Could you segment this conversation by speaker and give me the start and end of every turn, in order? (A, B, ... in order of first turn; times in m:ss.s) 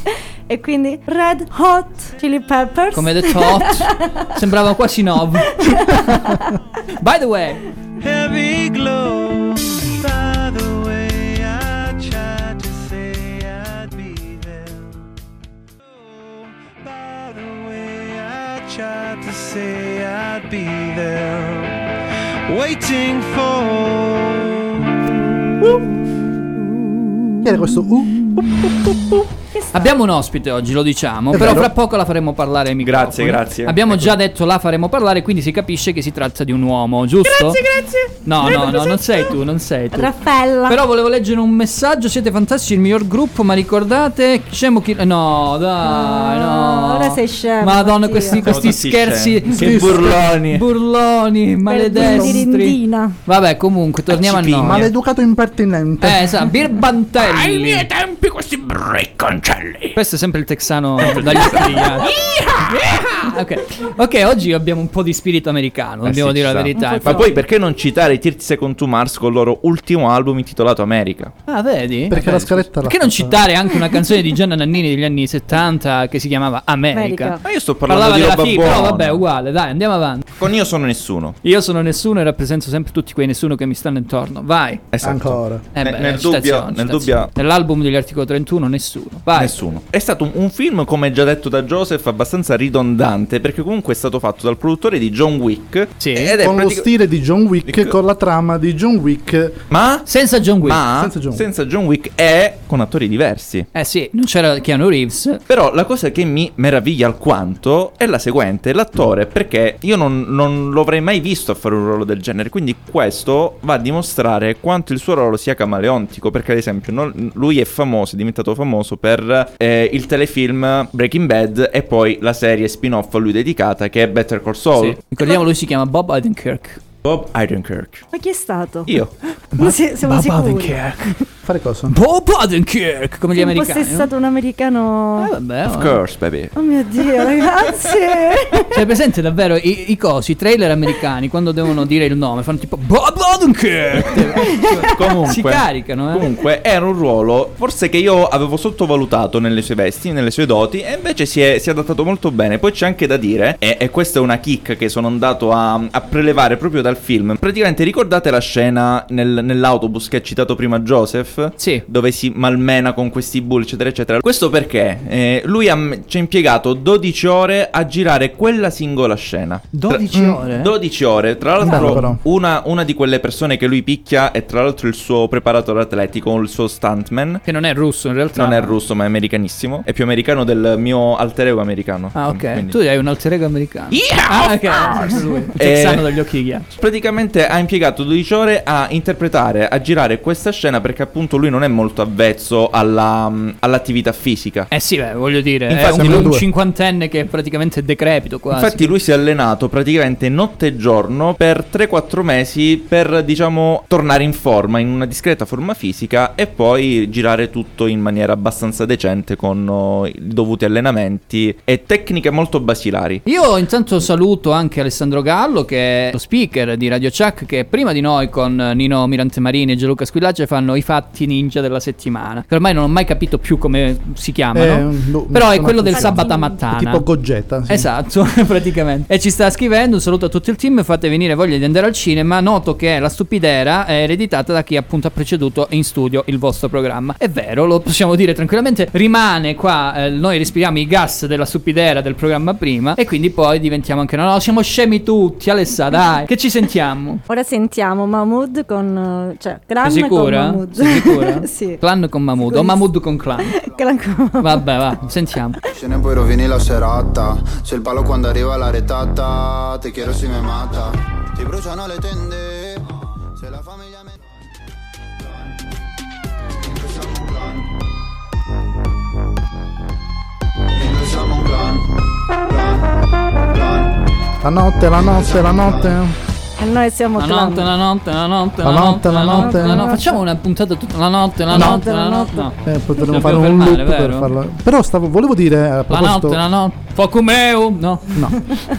0:00.5-0:04.3 A
0:02.9-0:06.3 B
0:05.6-0:06.5 A
0:07.0-0:07.6 B
0:08.0-0:15.1 C
0:15.8-0:21.8 C
0:22.5-0:25.9 C
0:27.4-0:29.2 D
0:29.5-0:29.9 A
0:29.7-0:37.6 B
0:31.3-0:31.7 D
0:32.8-0:34.2 E
0:37.3-0:39.2 A
0:38.2-0:40.1 B
0:39.9-0:40.8 A
0:40.7-0:54.9 B
0:45.8-0:48.5 A
0:48.4-0:50.6 E
0:49.6-0:50.2 D
0:51.7-0:53.2 A
0:52.0-0:52.4 D
0:54.1-0:54.9 E
0:54.6-0:56.5 D
0:56.0-0:57.9 B
0:57.2-0:59.9 E
1:00.0-1:02.1 B
1:01.0-1:03.0 E
1:02.6-1:07.4 B
1:06.0-1:11.3 E
1:11.5-1:20.3 B
1:12.1-1:13.4 D
1:16.9-1:17.4 A
1:17.4-1:19.2 E
1:20.4-1:21.4 E
1:21.4-1:24.8 B
1:24.9-1:27.3 E
1:25.0-1:25.6 D
1:25.8-1:29.5 B
1:29.3-1:36.9 E
1:36.0-1:36.3 B
1:36.4-1:39.6 D
1:37.6-1:38.0 E
1:39.7-1:40.1 E
1:40.1-1:40.8 B
1:40.6-1:43.7 E
1:40.9-1:41.5 D
1:43.7-1:45.4 B
1:45.5-2:05.0 E
2:04.8-2:06.8 B
2:07.0-2:08.1 E
2:08.1-2:08.9 A
2:09.5-2:11.1 B
2:09.6-2:11.1 A
2:11.4-2:12.0 D
2:11.9-2:14.1 B
2:13.3-2:15.3 A
2:15.2-2:16.0 B
2:15.7-2:16.5 E
2:16.6-2:18.8 A
2:18.7-2:26.2 B
2:24.3-2:24.9 A
2:24.9-2:57.4 E
2:41.6-2:41.8 B
2:49.7-2:50.7 B
2:51.6-2:52.2 D
2:51.6-2:52.0 B
2:57.4-2:58.8 B
2:58.4-3:02.8 E
3:02.2-3:06.7 B
3:03.9-3:06.1 E
3:06.8-3:14.7 E
3:14.7-3:18.9 B
3:15.7-3:16.3 E
3:15.8-3:16.5 D
3:18.5-3:33.2 E
3:33.3-3:47.0 B
3:44.5-3:47.9 D
3:46.0-3:46.5 A
3:47.7-4:07.2 B
4:07.3-4:11.8 A
4:09.8-4:13.6 B
4:12.4-4:14.7 A
4:14.4-4:15.6 B
4:15.7-4:24.3 F
4:25.2-4:25.5 F
4:26.6-4:27.7 F
4:30.7-4:31.9 F
4:32.5-4:34.0 F
4:34.4-4:36.2 D
4:35.1-4:36.0 F
4:36.6-4:37.7 A
4:37.2-4:44.3 B
4:38.6-4:39.9 D
4:39.3-4:40.2 A
4:41.5-4:42.5 A
4:41.5-4:41.8 D
4:42.6-4:46.4 D
4:45.9-4:48.2 B
4:48.2-4:48.4 D